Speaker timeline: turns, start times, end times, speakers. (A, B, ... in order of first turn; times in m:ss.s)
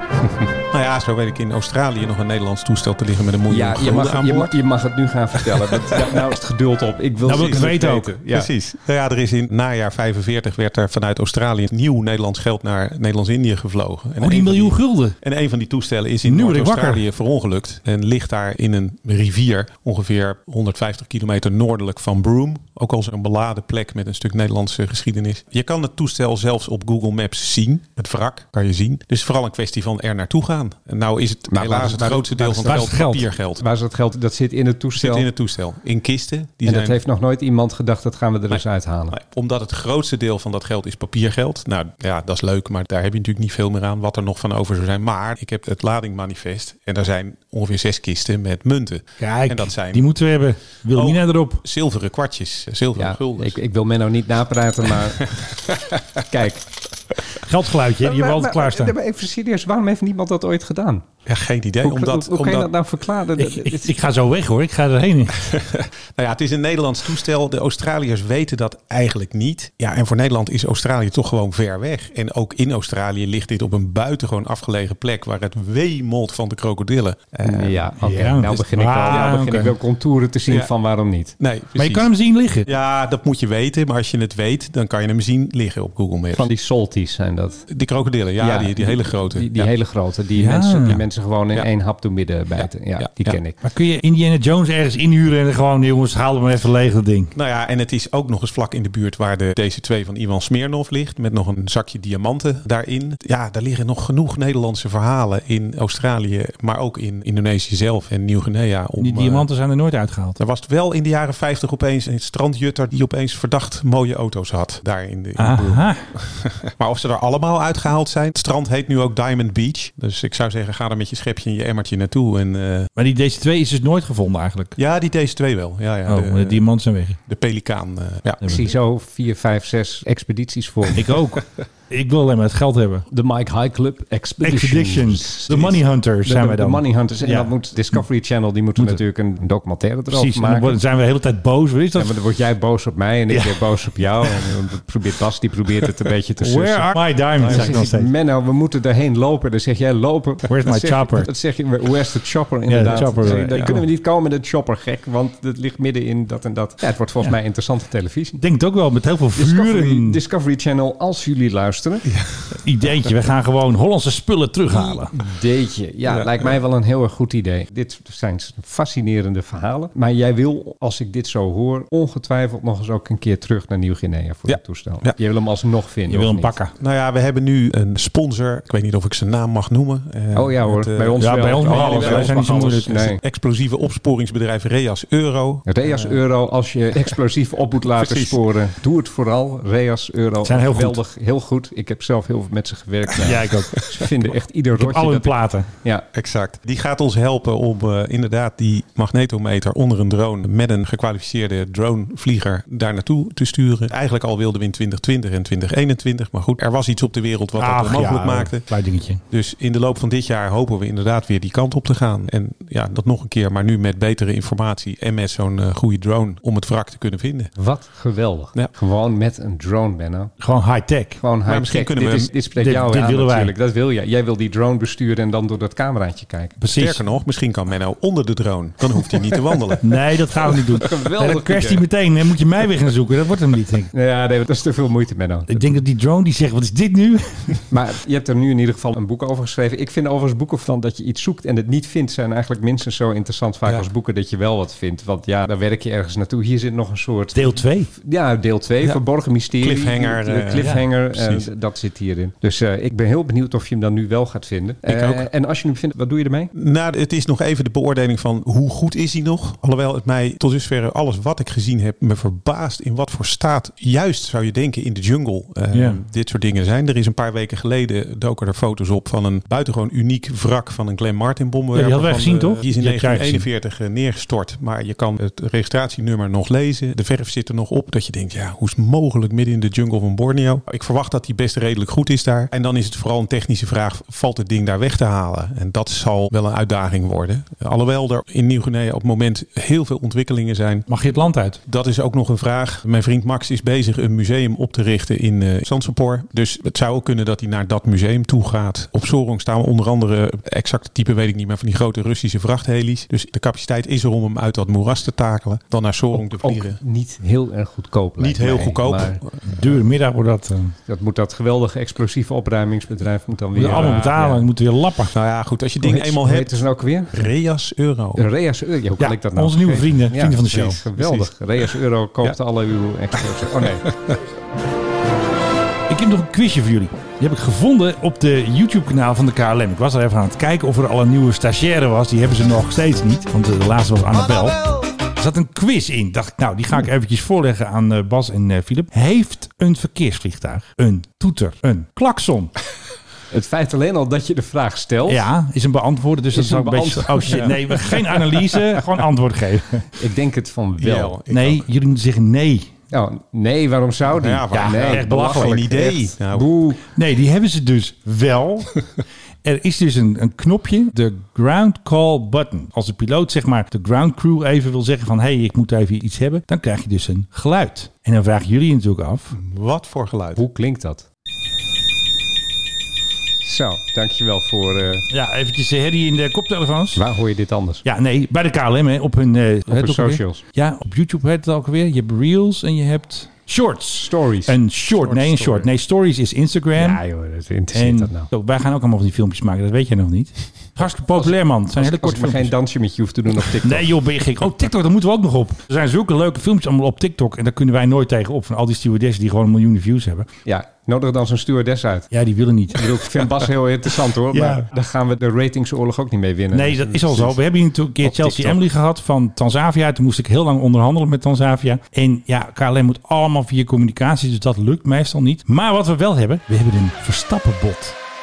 0:00.2-0:04.6 A
0:03.5-0:08.5 B
0:05.4-0:06.2 A
0:07.2-0:07.7 A
0:07.2-0:08.1 C
0:08.3-0:33.6 A
0:14.2-0:15.1 C
0:16.2-0:17.0 C
0:31.5-0:32.9 B
0:32.7-0:33.2 C
0:33.6-0:35.3 B
0:34.9-0:37.0 A
0:36.6-0:39.2 B
0:38.5-0:50.1 A
0:49.2-0:51.6 C
0:50.9-0:53.6 A
0:53.0-0:55.4 B
0:55.4-0:56.0 A
0:56.3-0:56.6 B
0:57.4-0:58.9 C
0:58.0-1:01.0 B
1:01.2-1:02.7 A
1:01.8-1:03.9 B
1:03.4-1:05.4 C
1:05.4-1:17.8 A
1:17.4-1:21.3 B
1:18.0-1:19.7 C
1:21.4-1:22.1 A
1:21.8-1:22.7 C
1:22.6-1:26.5 A
1:26.3-1:27.6 B
1:27.7-1:29.7 A
1:28.4-1:33.6 B
1:30.4-1:31.0 C
1:32.6-1:33.4 A
1:33.6-1:37.3 C
1:37.3-1:49.5 A
1:49.0-1:50.4 C
1:50.4-2:02.9 A
1:55.4-1:56.1 C
2:03.0-2:04.8 C
2:04.8-2:06.6 A
2:06.1-2:07.2 C
2:07.3-2:08.4 A
2:08.4-2:11.1 B
2:10.9-2:13.1 C
2:13.1-2:20.8 B
2:14.4-2:18.0 C
2:18.8-2:19.0 C
2:20.1-2:22.2 C
2:21.9-2:38.4 B
2:23.3-2:23.7 C
2:24.2-2:24.5 C
2:26.4-2:28.1 C
2:27.4-2:27.8 A
2:30.5-2:31.3 C
2:32.7-2:33.8 C
2:38.4-2:40.2 C
2:39.4-2:42.1 B
2:42.0-2:42.6 A
2:42.6-2:45.1 C
2:44.7-2:56.6 B
2:46.1-2:46.4 A
2:54.5-2:55.2 A
2:56.1-2:56.7 C
2:56.8-3:06.2 A
3:00.3-3:03.2 B
3:01.2-3:03.1 C
3:05.7-3:16.0 B
3:07.9-3:08.4 A
3:10.4-3:11.0 C
3:13.2-3:13.9 C
3:14.7-3:15.7 C
3:16.1-3:28.8 A
3:27.6-3:29.2 C
3:29.3-3:37.5 A
3:37.6-3:40.3 B
3:40.4-3:41.2 C
3:41.2-3:46.6 B
3:41.4-3:42.3 A
3:42.5-3:43.5 C
3:46.6-3:47.0 C
3:46.7-3:49.9 A
3:49.8-3:53.9 C
3:50.8-3:51.8 B
3:53.9-3:55.7 B
3:55.5-3:57.6 C
3:57.7-4:16.5 B
4:07.3-4:07.9 C
4:09.6-4:11.5 A
4:10.6-4:10.8 C
4:14.8-4:15.3 A
4:16.5-4:50.9 A
4:25.7-4:26.0 C
4:31.7-4:33.4 C
4:50.9-4:51.6 C
4:51.6-5:06.8 A
5:06.1-5:09.2 B
5:08.2-5:09.8 A
5:09.5-5:10.7 C
5:10.8-5:14.4 B
5:13.5-5:15.2 C
5:13.6-5:14.1 A
5:15.1-5:18.3 A
5:15.8-5:17.2 B
5:18.2-5:23.9 B
5:19.0-5:20.8 C
5:21.0-5:21.3 A
5:23.2-5:24.2 A
5:25.9-5:42.5 C
5:43.3-5:45.3 B
5:45.1-5:49.9 C
5:46.3-5:47.8 B
5:47.3-5:47.6 A
5:50.0-5:51.2 B
5:50.8-5:51.7 A
5:51.3-5:52.7 C
5:52.9-5:56.8 B
5:54.1-5:56.6 A
5:54.5-5:55.7 C
5:56.9-5:58.9 C
5:59.4-6:09.3 C
6:09.3-6:10.4 A
6:10.3-6:11.0 B
6:13.4-6:15.0 B
6:15.1-6:17.0 C
6:16.9-6:17.8 B
6:17.8-6:27.0 C
6:19.7-6:20.4 B
6:24.0-6:24.6 B
6:25.0-6:25.7 A
6:26.8-6:28.3 B
6:27.7-6:32.5 C
6:30.8-6:33.9 B
6:33.5-6:40.3 C
6:40.4-6:42.1 B
6:42.1-6:43.2 C
6:42.7-6:47.4 B
6:44.3-6:44.6 C
6:46.5-6:57.9 C
6:48.0-6:48.6 B